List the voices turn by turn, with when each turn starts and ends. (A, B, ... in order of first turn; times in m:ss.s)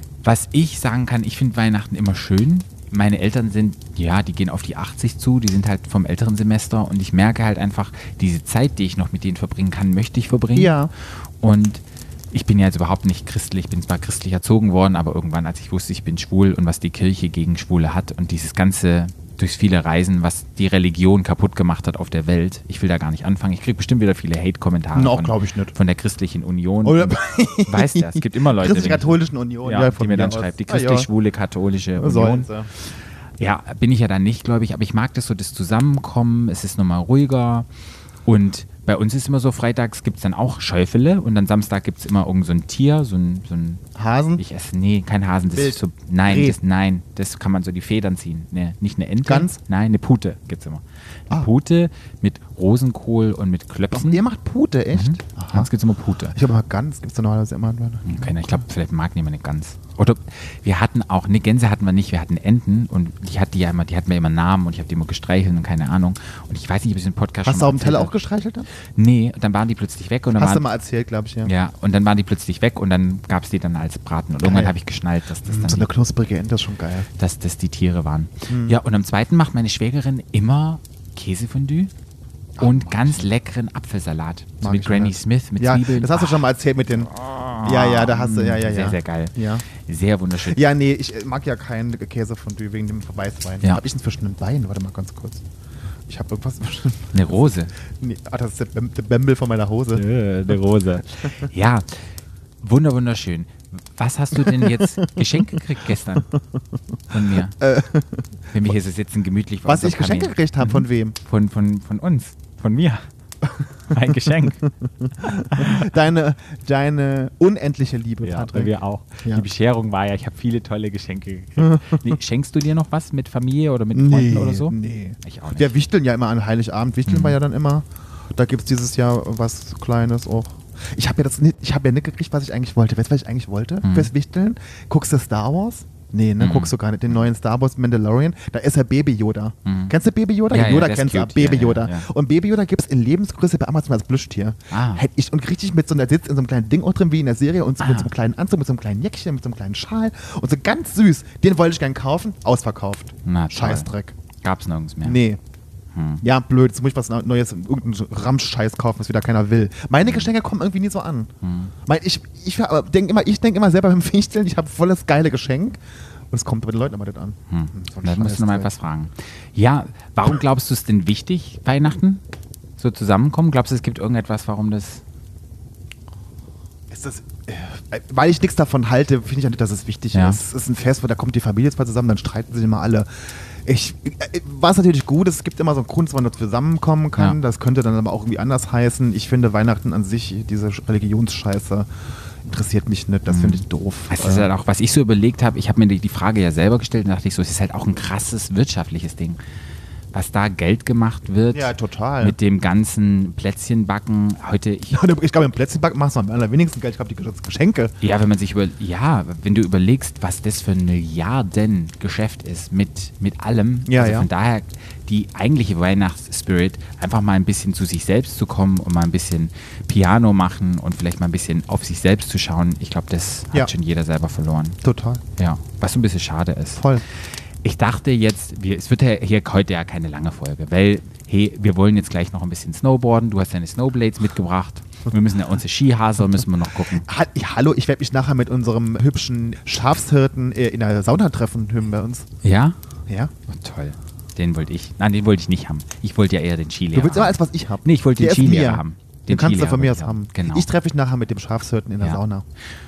0:00.2-0:32.5 A
0:10.5-0:10.9 B
0:24.9-0:25.7 B
0:26.8-0:31.1 B
0:32.0-0:32.7 B
0:33.4-0:37.7 A
0:38.2-0:43.8 A
0:44.0-0:44.4 B
0:44.4-0:54.2 A
0:45.5-0:46.6 B
0:49.2-0:49.6 B
0:53.9-0:55.7 B
0:54.9-0:56.4 A
0:56.3-0:58.6 B
0:58.0-1:08.1 A
1:07.4-1:08.7 B
1:08.9-1:10.7 A
1:10.4-1:11.5 B
1:11.4-1:15.9 A
1:14.4-1:14.7 B
1:15.4-1:17.1 B
1:17.2-1:21.9 A
1:18.5-1:18.8 B
1:22.6-1:23.3 B
1:22.6-1:26.5 A
1:24.6-1:27.1 B
1:27.0-1:30.6 A
1:27.6-1:29.6 B
1:30.4-1:35.4 B
1:36.1-1:40.0 B
1:37.1-1:37.7 A
1:39.9-1:42.0 A
1:42.6-1:46.3 A
1:44.3-1:46.6 B
1:47.1-1:47.6 A
1:47.6-1:48.7 B
1:48.5-1:53.0 A
1:49.6-1:51.2 B
1:53.6-1:58.7 B
1:53.9-1:54.6 A
1:55.2-1:55.9 A
1:58.2-2:05.7 A
2:01.6-2:02.2 B
2:03.9-2:34.1 B
2:07.1-2:07.4 A
2:13.8-2:14.1 A
2:16.4-2:17.2 A
2:19.6-2:19.9 A
2:20.5-2:22.1 A
2:24.7-2:25.0 A
2:27.8-2:28.1 A
2:33.2-2:33.9 A
2:34.4-2:35.2 A
2:35.0-2:35.4 B
2:35.9-2:36.2 A
2:36.2-2:41.3 B
2:40.0-2:40.3 A
2:41.4-2:41.7 A
2:41.8-2:48.7 B
2:47.5-2:52.2 A
2:52.8-2:55.0 A
2:56.9-3:11.9 B
3:00.1-3:00.4 A
3:12.4-3:14.5 B
3:13.3-3:19.4 A
3:20.1-3:25.0 A
3:21.5-3:22.4 B
3:24.9-3:27.9 B
3:28.0-3:44.8 A
3:33.9-3:34.3 B
3:44.8-3:45.2 B
3:45.4-3:57.1 A
3:46.8-3:47.0 B
3:56.9-4:02.2 B
4:02.4-4:02.8 A
4:03.5-4:10.7 A
4:06.9-4:12.4 B